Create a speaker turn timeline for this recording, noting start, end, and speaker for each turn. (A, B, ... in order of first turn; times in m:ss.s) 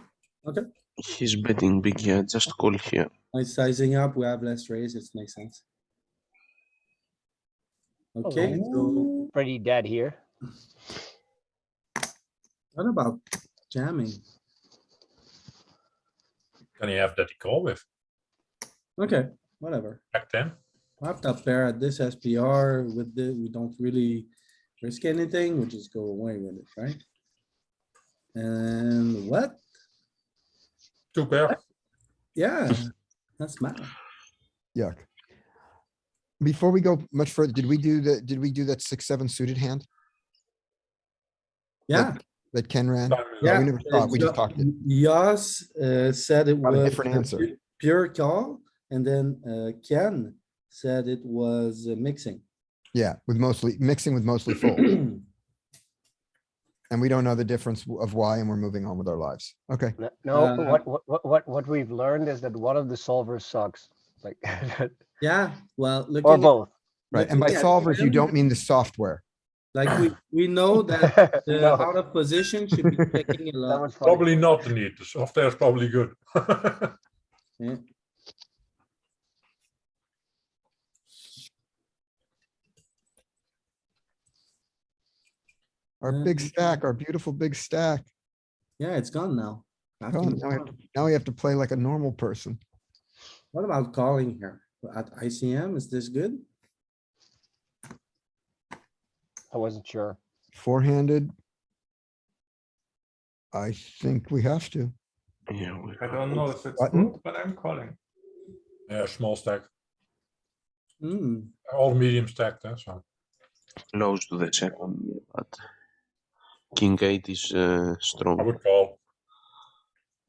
0:01.0-0:03.1 A
0:03.3-0:05.6 B
0:08.1-0:09.3 B
0:08.2-0:10.2 C
0:12.7-0:14.2 B
0:16.8-0:17.8 D
0:19.0-0:20.0 B
0:20.1-0:20.6 D
0:21.0-0:24.3 B
0:24.8-0:27.0 B
0:28.3-0:29.6 B
0:31.1-0:31.6 D
0:32.3-0:33.9 B
0:34.7-0:35.0 E
0:36.4-0:39.8 E
0:41.9-0:42.2 B
0:41.9-0:44.7 E
0:43.1-0:43.6 D
0:43.4-0:52.4 B
0:46.6-0:47.5 E
0:52.9-0:55.0 E
0:54.8-0:55.2 B
0:56.9-1:00.0 E
1:00.0-1:05.0 C
1:00.3-1:00.8 B
1:05.2-1:06.6 B
1:06.2-1:06.7 C
1:07.1-1:08.4 B
1:07.1-1:09.2 E
1:07.3-1:07.7 C
1:09.7-1:14.0 B
1:11.0-1:11.9 C
1:13.6-1:14.5 C
1:14.0-1:16.9 D
1:26.0-1:28.1 E
1:26.1-1:26.5 B
1:28.8-1:30.7 B
1:30.1-1:32.6 E
1:33.5-1:36.4 B
1:39.5-1:40.2 C
1:40.5-1:41.3 E
1:43.5-1:44.9 E
1:45.5-1:46.5 A
1:46.0-1:48.0 F
1:46.8-1:47.1 E
1:48.9-1:49.7 D
1:51.0-1:51.5 B
1:51.7-1:53.0 D
1:53.9-1:55.6 A
1:56.7-1:58.5 A
1:58.4-1:59.0 D